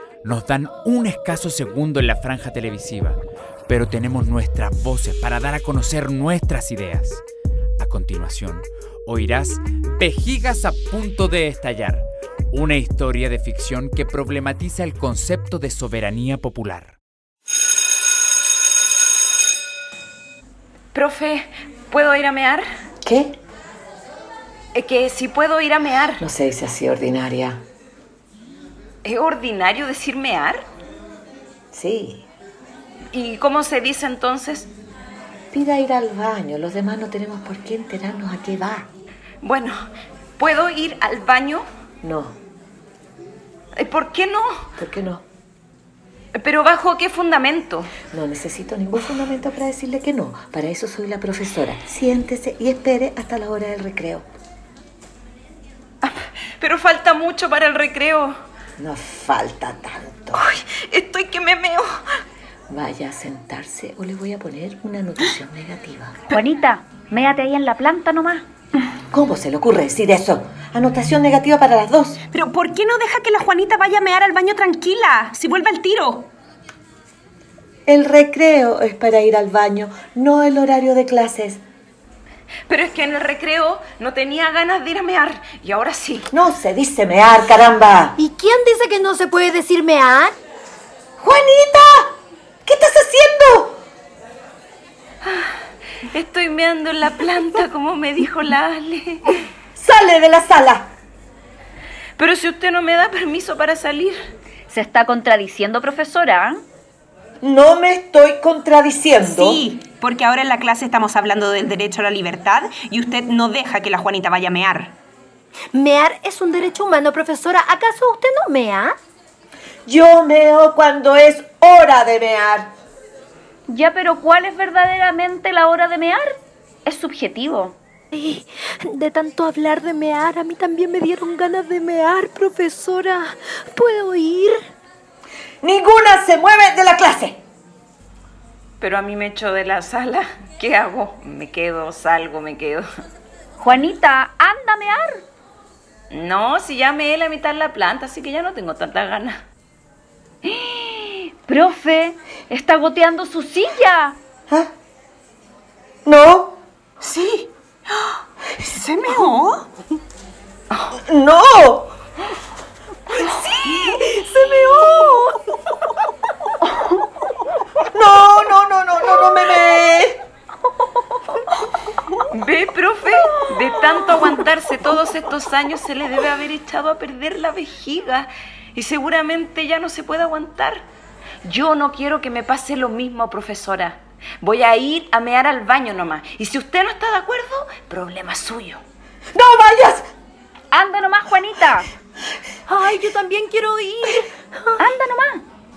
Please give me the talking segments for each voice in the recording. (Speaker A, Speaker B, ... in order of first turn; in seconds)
Speaker A: 0.2-7.2, 7.8-17.0
Speaker B: 20.9-22.7, 24.7-26.2, 29.0-30.6, 33.1-34.7, 39.4-39.8, 40.4-41.6, 43.8-44.6, 46.3-47.9, 56.0-58.3, 60.3-61.9, 82.7-86.3, 95.2-95.5, 96.1-99.4, 102.2-104.2, 138.8-142.8, 146.1-149.4, 172.3-180.9, 181.4-188.8
Speaker C: 23.0-23.4, 26.2-27.6, 31.7-32.3, 35.5-38.9, 42.0-42.4, 44.8-45.2, 48.1-54.3, 58.8-60.4, 62.7-66.2, 69.1-72.2, 77.9-81.6, 86.3-88.2, 91.2-92.1, 92.7-93.8, 99.8-100.9, 107.4-109.6, 119.9-122.7, 135.6-137.4, 156.1-156.6, 160.9-161.9, 163.7-165.1, 167.9-170.2, 189.3-190.1
Speaker D: 66.3-68.5, 104.7-106.6, 123.7-127.8, 143.6-145.2, 150.4-154.2, 190.7-191.9, 194.8-195.4
Speaker E: 72.3-76.3, 109.2-115.0, 157.0-157.5, 158.6-159.7
Speaker F: 88.2-90.3, 115.7-119.0, 128.1-134.6, 163.9-165.3, 192.7-194.8